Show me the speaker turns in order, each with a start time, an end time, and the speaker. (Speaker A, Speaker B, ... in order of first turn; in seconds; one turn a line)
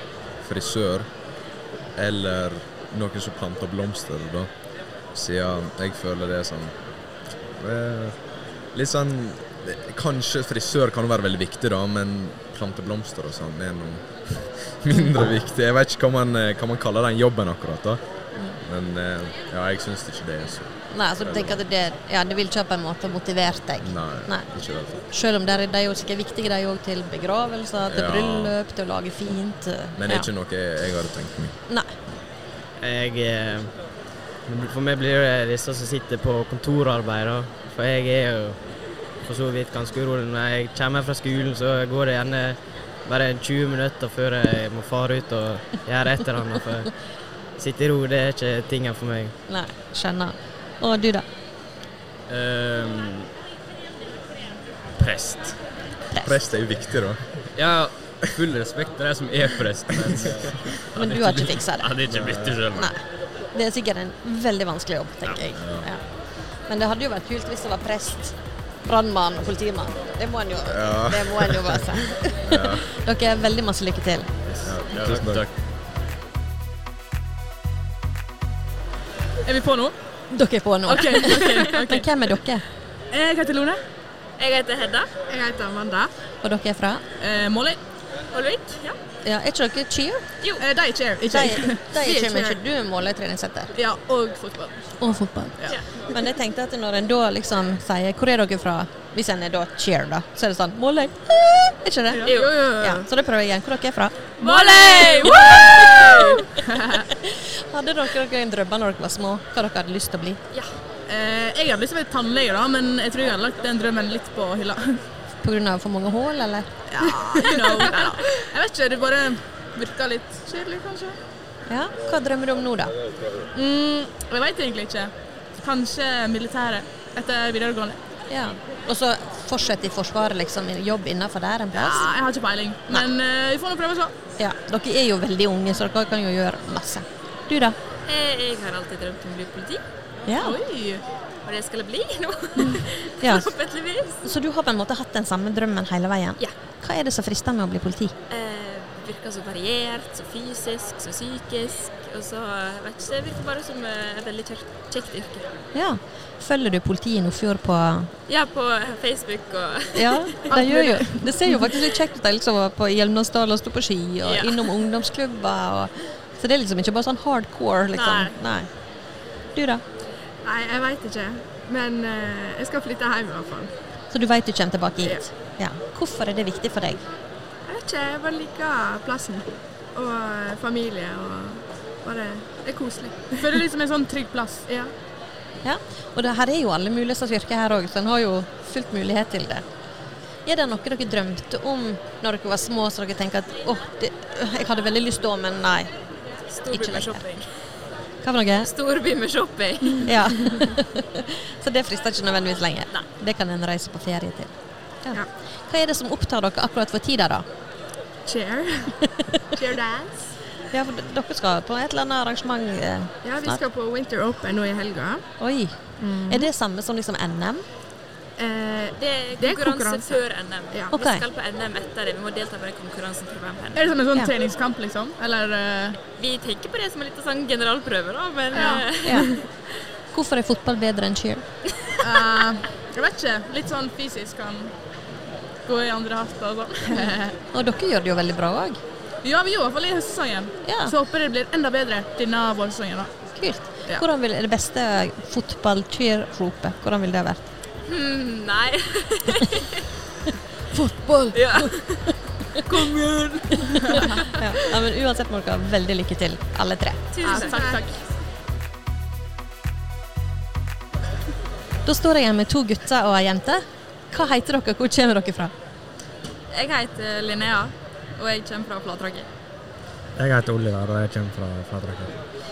Speaker A: 0.4-1.1
Speaker A: 1.9-4.5
Speaker A: 5.1-6.8
Speaker A: 7.6-8.2
Speaker A: 8.7-18.0
Speaker A: 18.6-21.6
Speaker B: 20.9-30.3
Speaker A: 23.8-25.1
Speaker A: 27.9-28.5
Speaker A: 29.9-31.6
Speaker C: 32.8-33.7
Speaker C: 34.5-38.6
Speaker C: 39.2-46.9
Speaker C: 47.6-49.4
Speaker B: 49.5-51.2
Speaker D: 52.3-53.3
Speaker D: 54.9-55.6
Speaker B: 56.1-56.4
Speaker A: 56.2-57.2
Speaker D: 57.5-62.9
Speaker B: 60.9-61.9
Speaker A: 62.1-62.6
Speaker B: 62.7-66.0
Speaker D: 65.2-65.6
Speaker A: 65.6-65.9
Speaker B: 66.7-74.3
Speaker A: 70.7-71.8
Speaker A: 72.5-72.9
Speaker A: 74.6-75.4
Speaker D: 74.7-75.5
Speaker E: 79.4-79.9
Speaker B: 80.3-82.6
Speaker E: 80.9-82.1
Speaker E: 83.1-83.8
Speaker F: 84.4-85.1
Speaker G: 85.3-86.1
Speaker B: 86.4-87.0
Speaker E: 87.2-87.8
Speaker F: 88.3-89.0
Speaker B: 89.2-90.2
Speaker E: 90.6-91.8
Speaker B: 91.2-93.7
Speaker G: 91.3-92.5
Speaker G: 93.8-94.7
Speaker B: 95.0-104.3
Speaker E: 102.1-102.5
Speaker F: 102.3-102.5
Speaker G: 102.3-103.0
Speaker F: 104.4-105.3
Speaker E: 104.4-107.0
Speaker G: 104.4-105.1
Speaker B: 105.2-106.4
Speaker B: 107.2-110.4
Speaker E: 111.1-115.0
Speaker B: 115.4-116.8
Speaker G: 116.9-118.2
Speaker E: 117.3-121.2
Speaker B: 121.7-122.9
Speaker E: 123.5-128.0
Speaker B: 128.3-132.1
Speaker E: 131.7-134.1
Speaker B: 134.4-137.8
Speaker F: 138.1-139.8
Speaker B: 140.3-140.6
Speaker E: 140.3-141.0
Speaker F: 141.4-144.2
Speaker B: 143.2-143.5
Speaker B: 144.2-148.1
Speaker F: 148.3-155.5
Speaker B: 155.7-158.1
Speaker F: 158.3-160.4
Speaker B: 159.9-168.7
Speaker G: 160.5-161.7
Speaker F: 164.2-164.8
Speaker F: 167.9-168.4
Speaker B: 169.5-169.8
Speaker G: 170.4-173.7
Speaker B: 174.1-177.0
Speaker G: 175.0-175.3
Speaker G: 177.6-183.6
Speaker E: 183.4-184.6
Speaker G: 184.7-184.9
Speaker B: 185.6-189.6
Speaker B: 190.4-195.9
Speaker B: 196.6-197.4
Speaker F: 196.7-197.3
Speaker B: 198.2-198.7
Speaker F: 198.6-200.1
Speaker B: 200.0-204.5
Speaker B: 205.0-207.4
Speaker G: 208.2-208.9
Speaker G: 209.5-210.3
Speaker B: 210.7-213.6
Speaker G: 213.2-215.2
Speaker B: 215.4-217.6
Speaker G: 216.0-216.5
Speaker G: 218.4-220.9
Speaker F: 219.0-223.8
Speaker B: 220.9-221.2
Speaker E: 223.7-226.0
Speaker F: 226.2-229.4
Speaker G: 228.5-229.2
Speaker B: 229.0-229.3
Speaker B: 230.1-231.4
Speaker E: 232.0-234.7
Speaker E: 235.7-237.3
Speaker B: 237.0-238.8
Speaker E: 239.2-243.1
Speaker B: 240.6-240.9
Speaker B: 243.3-247.4
Speaker F: 247.8-249.6
Speaker G: 250.7-251.7
Speaker F: 251.3-252.1
Speaker B: 254.4-257.0
Speaker F: 257.1-257.6
Speaker G: 257.2-257.9
Speaker E: 257.3-257.9
Speaker B: 261.8-265.5
Speaker F: 266.5-269.3
Speaker H: 270.1-272.1